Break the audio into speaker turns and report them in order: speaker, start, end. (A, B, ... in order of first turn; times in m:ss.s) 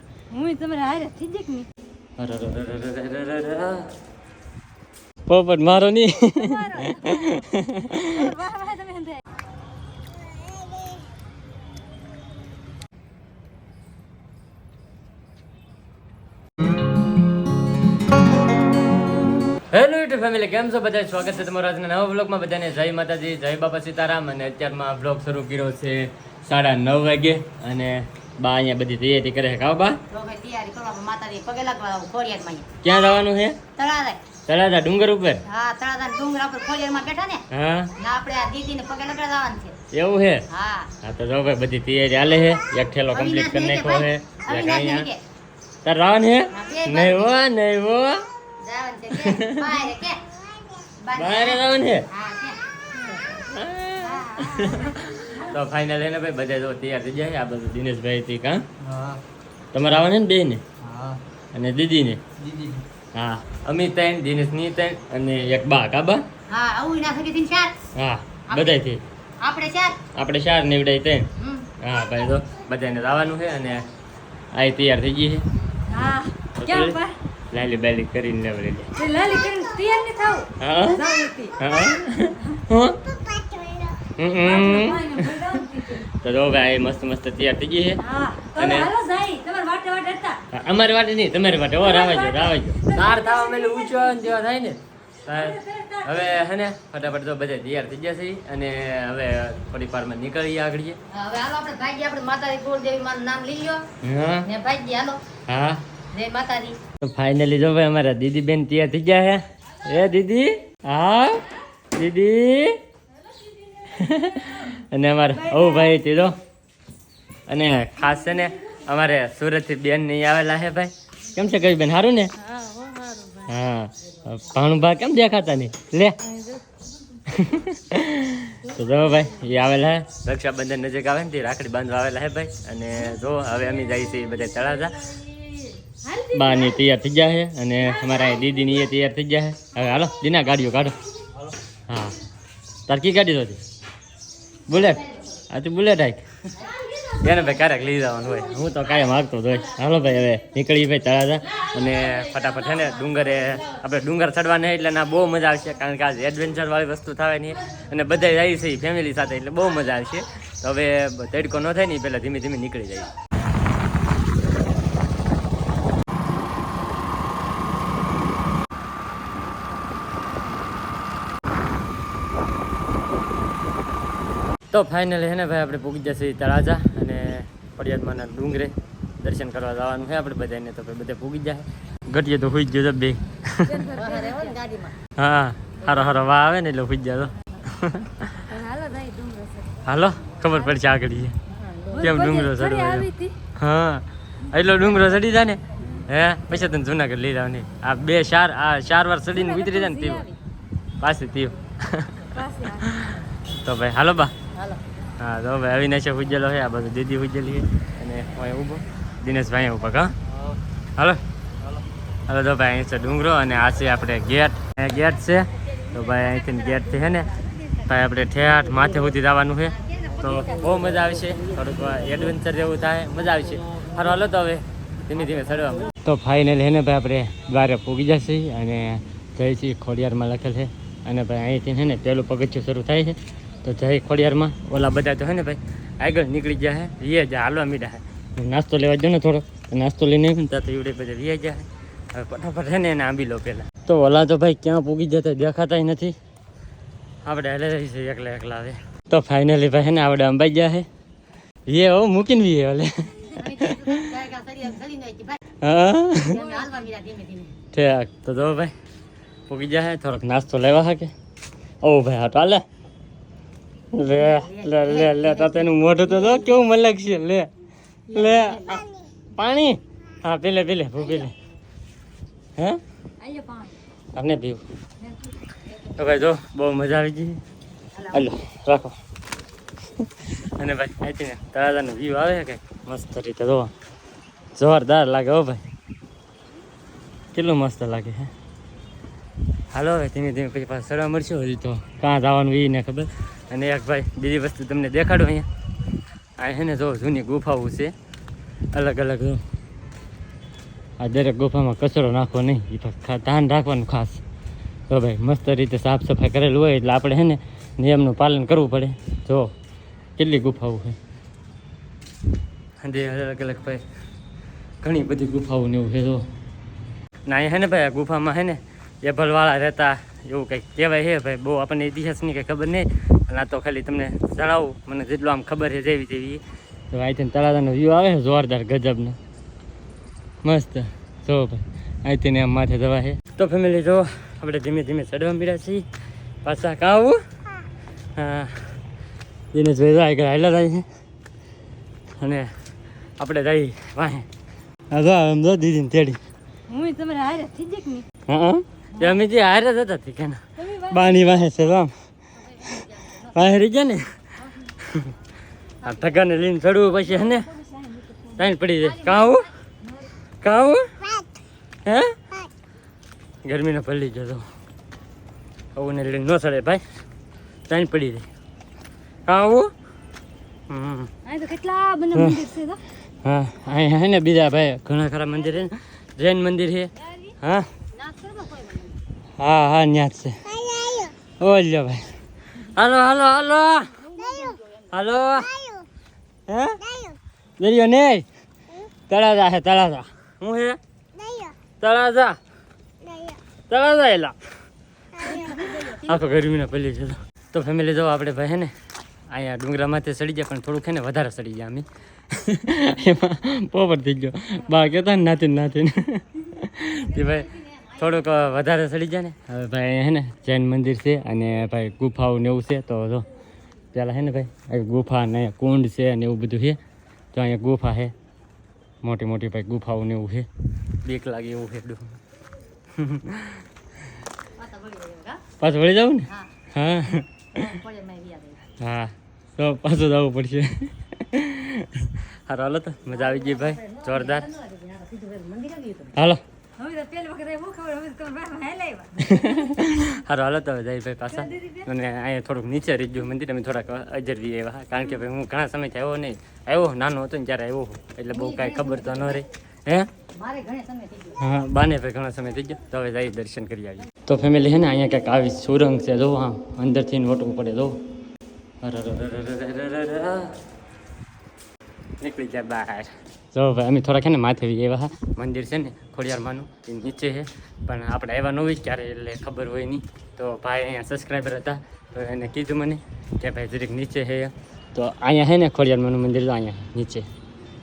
0:00.3-0:01.7 A
0:02.2-0:03.9 B
0:05.3-0:08.3 B
0:06.4-0:09.2 A
0:19.7-0:30.0 B
0:30.1-0:32.7 C
0:32.8-0:33.6 B
0:33.8-0:34.2 C
0:34.5-0:35.4 B
0:35.5-0:37.4 C
0:37.5-0:37.9 B
0:38.0-0:39.8 C
0:39.9-0:40.5 B
0:40.5-0:40.9 C
0:41.0-0:45.1 B
0:43.1-0:45.2 C
0:45.8-0:48.2 B
0:46.5-0:47.4 C
0:48.6-0:52.6 C
0:49.1-0:49.8 B
0:51.2-0:52.1 B
0:53.1-0:59.2 B
0:54.0-0:55.0 C
0:59.7-1:06.3 B
1:06.5-1:07.8 C
1:08.0-1:09.0 B
1:08.5-1:08.8 C
1:09.4-1:10.0 C
1:10.1-1:13.8 B
1:11.4-1:11.7 C
1:14.5-1:15.4 B
1:15.9-1:17.2 A
1:16.6-1:17.0 B
1:17.5-1:19.0 B
1:19.0-1:21.6 A
1:20.6-1:21.0 B
1:21.6-1:23.0 B
1:22.3-1:22.6 A
1:23.3-1:26.1 A
1:24.2-1:28.0 B
1:28.0-1:30.4 A
1:28.6-1:28.9 B
1:30.5-1:41.0 B
1:31.8-1:34.3 A
1:35.3-1:36.3 A
1:41.1-1:43.8 C
1:44.0-1:44.5 B
1:44.4-1:45.2 C
1:45.5-1:45.8 B
1:46.1-1:46.8 C
1:47.0-1:52.8 B
1:53.9-1:56.4 B
1:54.4-1:54.6 A
1:55.4-1:56.0 A
1:57.5-2:02.3 B
2:02.4-2:03.5 A
2:03.5-2:06.2 B
2:06.2-2:06.7 A
2:07.3-2:15.1 B
2:15.1-2:16.8 A
2:16.3-2:21.0 B
2:17.9-2:18.5 A
2:21.9-2:22.2 B
2:22.9-2:23.6 B
2:24.7-2:26.3 B
2:26.9-2:27.3 A
2:27.2-2:43.1 B
2:54.7-3:03.9 B
3:03.6-3:04.6 A
3:03.9-3:05.0 C
3:05.2-3:08.5 B
3:08.4-3:09.8 A
3:09.8-3:11.4 B
3:11.5-3:12.1 C
3:11.9-3:13.4 A
3:12.0-3:20.2 B
3:19.3-3:20.4 A
3:21.0-3:24.3 B
3:22.3-3:23.1 A
3:24.6-3:24.8 C
3:25.2-3:30.1 B
3:31.0-3:31.2 B
3:32.3-3:37.3 B
3:37.9-4:06.2 B
3:39.8-3:40.8 C
4:07.2-4:10.9 B
4:11.7-4:14.0 B
4:13.3-4:15.4 C
4:15.6-4:16.4 B
4:16.2-4:17.6 C
4:16.3-4:16.8 A
4:17.7-4:18.7 B
4:19.5-4:21.1 B
4:21.8-4:22.6 B
4:23.9-4:27.5 B
4:24.1-4:25.7 C
4:28.1-4:28.9 C
4:28.1-4:31.4 B
4:33.2-4:33.8 A
4:34.2-4:34.6 B
4:35.0-4:35.3 A
4:35.7-4:37.4 B
4:38.0-4:38.2 C
4:38.1-4:39.0 B
4:40.0-4:43.7 B
4:44.6-4:45.6 B
4:47.3-4:48.3 B
4:49.7-4:55.5 B
4:56.4-4:57.9 B
4:58.7-4:59.4 B
5:01.0-5:04.2 B
5:04.9-5:09.5 B
5:10.2-5:11.0 B
5:12.8-5:13.8 B
5:14.8-5:16.3 B
5:17.3-5:29.2 B
5:30.4-5:35.9 B
5:36.4-5:37.2 B
5:38.2-5:38.7 B
5:39.5-5:40.9 B
5:42.2-5:42.5 B
5:43.2-5:44.3 B
5:44.9-5:46.2 B
5:46.7-5:48.1 A
5:48.3-5:51.9 B
5:50.6-5:51.4 A
5:52.5-5:53.4 C
5:52.7-5:54.1 B
5:54.6-5:55.1 B
5:55.8-5:57.5 B
5:57.3-6:00.1 A
5:58.4-5:59.5 B
6:00.4-6:01.1 B
6:01.8-6:02.2 B
6:03.4-6:04.5 B
6:05.8-6:06.8 B
6:07.7-6:08.3 B
6:09.3-6:09.7 B
6:10.7-6:11.1 B
6:11.2-6:12.8 A
6:12.1-6:12.4 B
6:13.2-6:17.7 B
6:17.0-6:17.3 A
6:17.9-6:19.0 C
6:19.4-6:24.2 B
6:24.2-6:24.6 A
6:24.9-6:25.8 B
6:26.5-6:26.9 B
6:27.6-6:28.3 B
6:29.1-6:30.8 B
6:31.8-6:32.4 B
6:33.7-6:34.4 B
6:35.2-6:38.7 B
6:35.3-6:36.2 C
6:39.3-6:53.3 B
6:53.9-6:56.8 B
6:57.3-6:58.1 B
6:59.0-7:00.5 B
7:01.0-7:02.2 B
7:03.0-7:03.6 B
7:04.5-7:05.4 C
7:05.6-7:07.3 B
7:07.5-7:08.6 C
7:08.8-7:14.5 B
7:13.3-7:16.2 C
7:16.2-7:16.4 B
7:16.8-7:19.8 A
7:19.2-7:30.1 B
7:21.3-7:21.9 A
7:28.3-7:29.4 C
7:30.3-7:31.4 C
7:31.4-7:38.0 B
7:38.8-7:40.6 B
7:42.2-7:57.3 B